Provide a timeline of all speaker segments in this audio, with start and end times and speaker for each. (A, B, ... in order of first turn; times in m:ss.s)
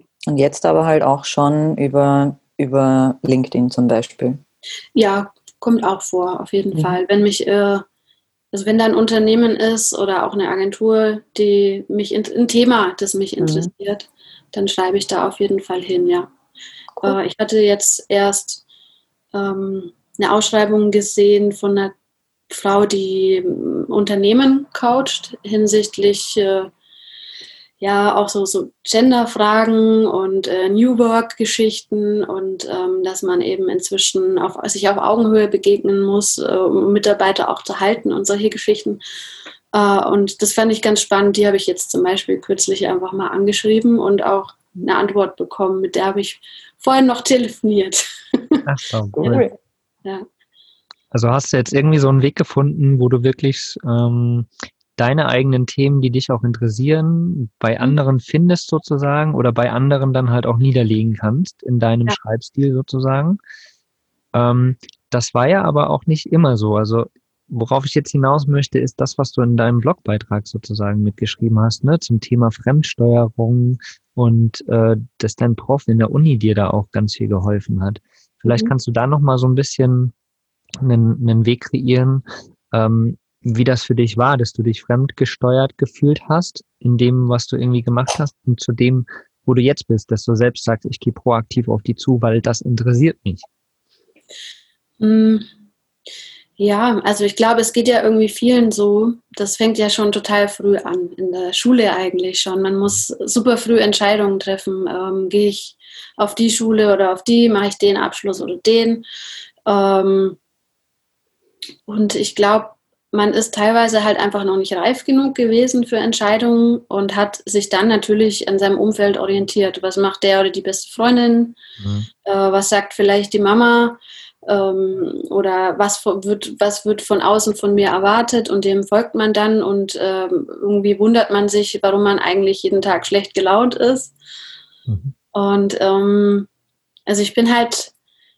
0:00.3-0:04.4 A
0:05.0-0:07.8 B
0:08.5-0:16.3 B
0:13.4-0:13.7 A
0:17.0-0:18.6 B
0:19.3-0:21.9 B
0:22.5-0:26.7 B
0:27.8-0:39.0 B
0:39.7-0:48.6 B
0:48.6-0:49.4 C
0:49.2-0:49.5 A
0:51.1-1:03.4 C
1:04.3-1:20.1 C
1:20.8-1:33.4 C
1:35.0-1:35.5 B
1:36.6-1:49.0 B
1:49.7-1:50.4 B
1:51.9-2:01.6 B
2:01.8-2:02.1 C
2:02.3-2:14.1 B
2:14.9-2:15.1 C
2:15.3-2:16.5 B
2:17.1-2:17.9 B